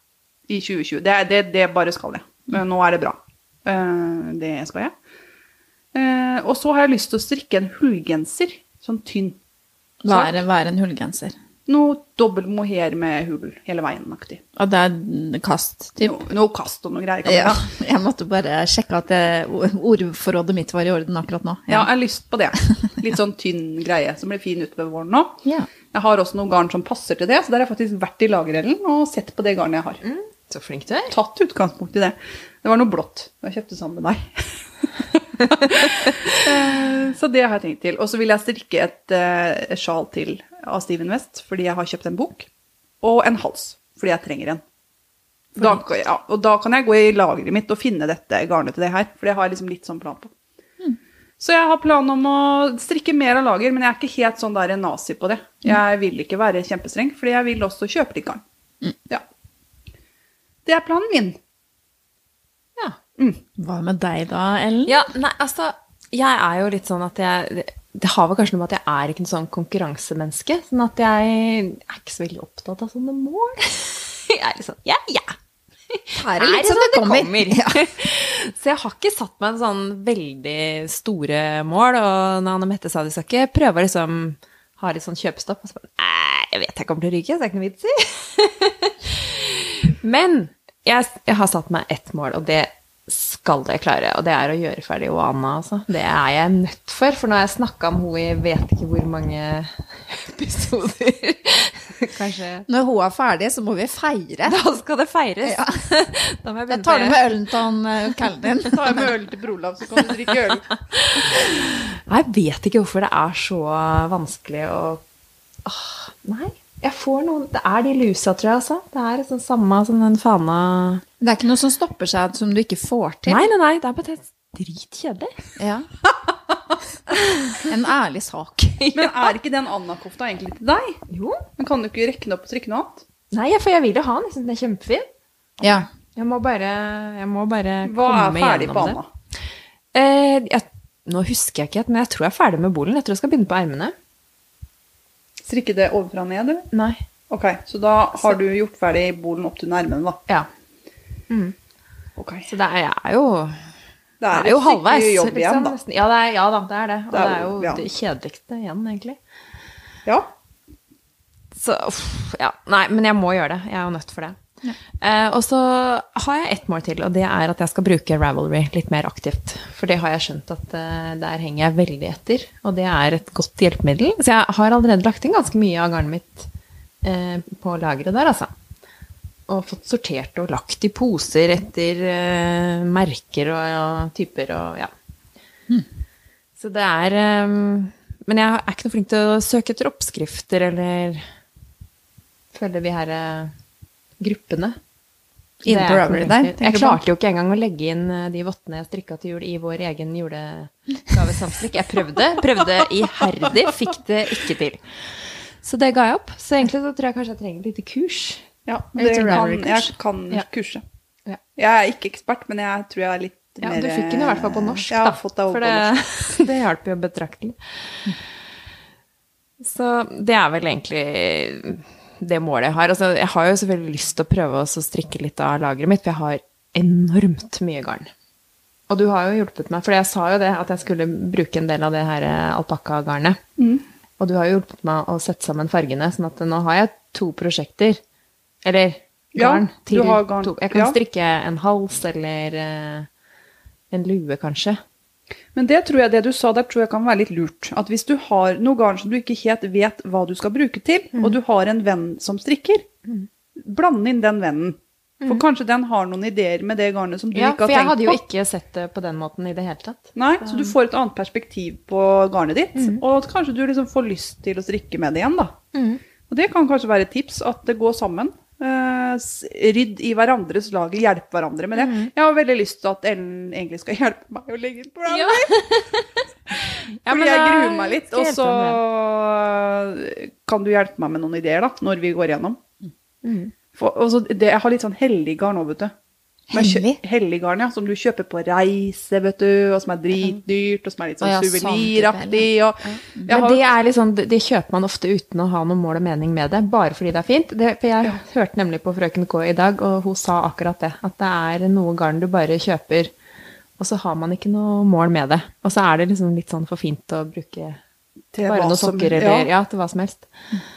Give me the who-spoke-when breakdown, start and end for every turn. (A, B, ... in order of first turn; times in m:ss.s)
0:00.5-0:04.9 A
0:05.9-0:09.4 A
0:10.0-0:11.3 B
0:10.1-0:10.3 A
0:11.7-0:14.4 A
0:14.6-0:16.2 B
0:16.0-0:17.7 A
0:17.2-0:21.9 B
0:21.7-0:25.4 A
0:25.9-0:30.0 A
0:30.0-0:31.2 C
0:31.1-0:42.5 A
0:35.6-0:36.4 C
0:43.0-0:44.6 A
0:45.6-0:50.3 A
0:51.4-0:58.4 A
1:00.6-1:01.4 A
1:03.6-1:04.9 B
1:04.8-1:15.4 C
1:15.9-1:42.6 C
1:16.2-1:17.8 B
1:42.7-1:44.6 B
1:44.4-1:47.2 C
1:45.4-1:45.8 B
1:46.7-1:49.1 B
1:48.7-1:50.7 A
1:50.9-1:55.0 C
1:55.6-2:01.0 C
2:01.2-2:03.4 B
2:03.3-2:05.3 C
2:05.6-2:05.9 B
2:07.1-2:07.6 C
2:07.6-2:08.8 B
2:08.8-2:09.2 C
2:08.9-2:11.0 A
2:11.1-2:11.4 C
2:11.6-2:13.0 A
2:13.3-2:15.1 C
2:15.6-2:15.9 B
2:16.1-2:19.0 C
2:17.8-2:19.1 A
2:19.9-2:23.9 C
2:25.4-2:26.7 A
2:26.7-2:27.0 C
2:27.3-2:30.2 A
2:31.3-2:31.5 C
2:32.2-2:32.5 A
2:32.5-2:33.7 C
2:34.2-2:35.8 A
2:34.3-2:39.2 C
2:37.1-2:37.8 A
2:41.5-2:44.4 C
2:45.0-2:56.5 C
2:57.0-2:58.5 C
2:59.5-3:04.9 C
3:06.6-3:11.3 C
3:12.5-3:13.5 C
3:14.2-3:14.8 C
3:15.6-3:17.0 B
3:15.6-3:28.4 C
3:28.7-3:30.8 A
3:29.0-3:29.9 B
3:31.6-3:36.4 A
3:33.6-3:38.1 C
3:39.6-3:48.1 C
3:48.9-3:53.4 C
3:53.6-3:53.8 A
3:54.2-3:58.0 C
3:58.6-4:03.1 C
3:59.3-4:01.0 A
4:03.9-4:04.8 C
4:05.5-4:12.8 A
4:13.6-4:18.2 A
4:17.3-4:20.7 C
4:20.2-4:25.6 A
4:22.8-4:23.0 C
4:25.7-4:26.0 C
4:26.3-4:35.5 A
4:31.7-4:32.1 C
4:35.1-4:38.8 C
4:37.0-4:42.6 A
4:43.2-4:43.5 C
4:43.7-4:45.9 A
4:46.5-4:47.0 B
4:46.5-4:53.6 A
4:51.2-4:52.5 B
4:52.9-5:03.1 C
5:03.8-5:07.8 C
5:08.3-5:09.5 A
5:08.5-5:10.3 C